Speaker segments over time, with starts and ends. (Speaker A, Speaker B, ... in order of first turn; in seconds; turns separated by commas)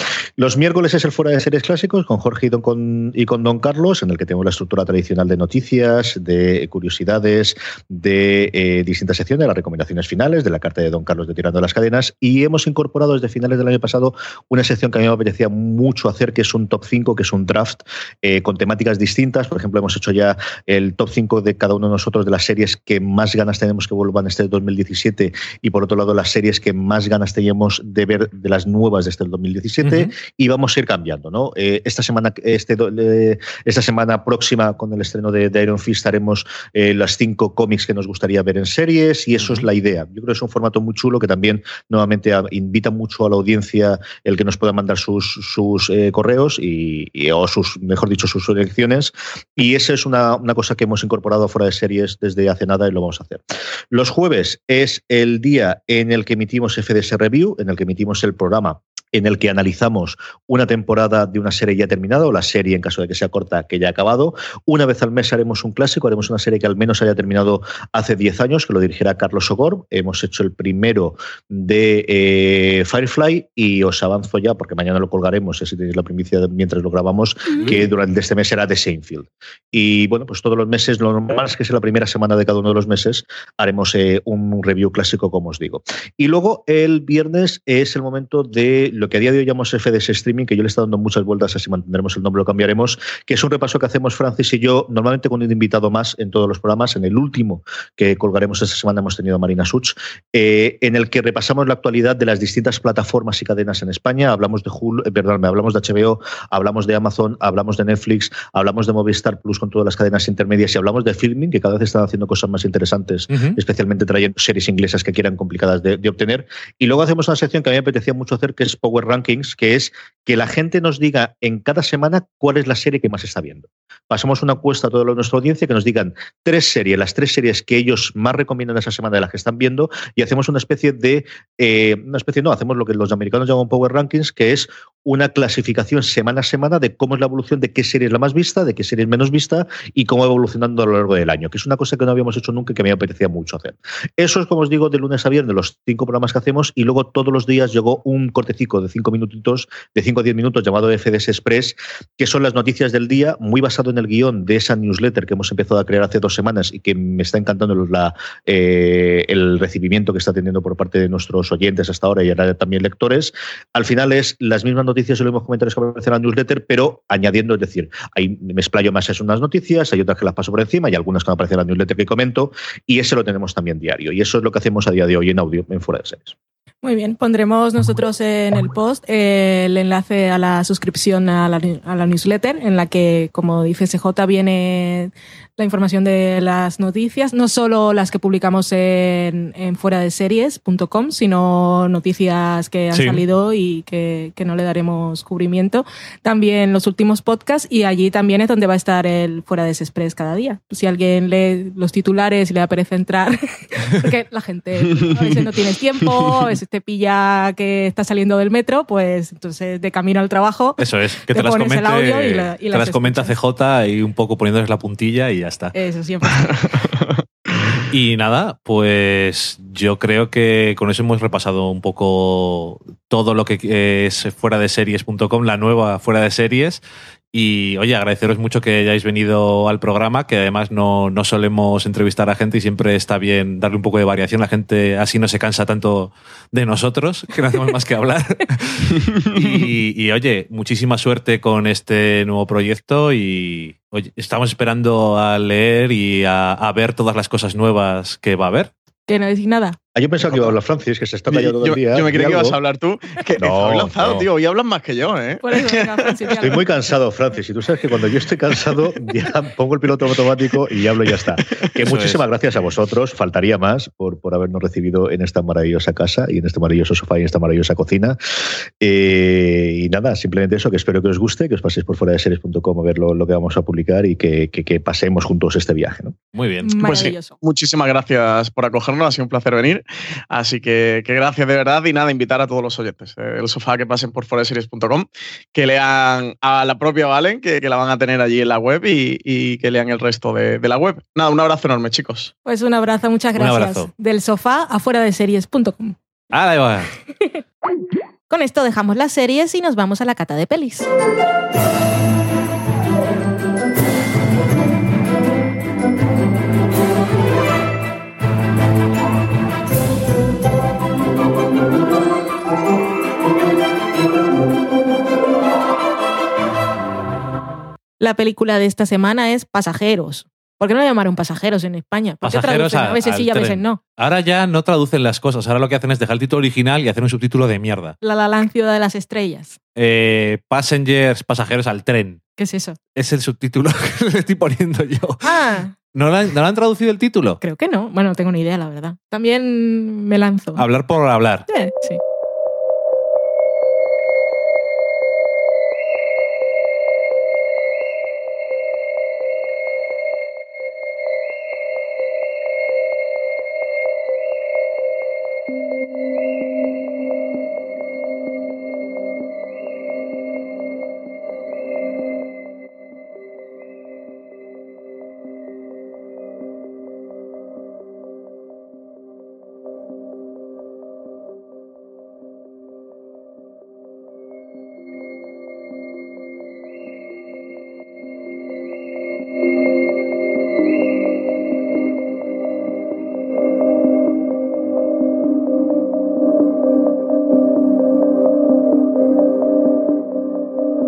Speaker A: 0.4-176.3, Speaker B: 29.8-30.1, Speaker B: 39.4-39.6, Speaker B: 113.3-113.6, Speaker C: 176.8-213.3, Speaker B: 192.9-193.2, Speaker B: 210.8-215.7, Speaker C: 215.7-216.5, Speaker D: 216.8-217.7, Speaker B: 217.9-226.8, Speaker B: 227.3-248.7, Speaker C: 249.1-249.8, Speaker A: 249.9-252.6, Speaker D: 250.3-250.5, Speaker D: 251.3-256.5, Speaker A: 253.4-254.3, Speaker C: 255.4-256.6, Speaker A: 256.4-268.2, Speaker D: 261.4-261.7, Speaker B: 261.8-262.2, Speaker A: 268.8-276.1, Speaker B: 276.3-277.1, Speaker C: 276.6-277.4, Speaker D: 276.8-292.3, Speaker C: 292.4-295.9, Speaker B: 293.3-293.9, Speaker B: 296.3-296.9, Speaker C: 297.2-297.4, Speaker C: 298.3-300.9, Speaker C: 318.0-323.8, Speaker B: 322.2-327.9, Speaker C: 328.0-329.6, Speaker B: 329.8-332.2, Speaker C: 332.4-332.8, Speaker B: 332.9-335.3, Speaker C: 335.2-335.7, Speaker B: 335.9-337.4, Speaker C: 337.4-340.6, Speaker B: 340.6-341.4, Speaker C: 341.5-342.0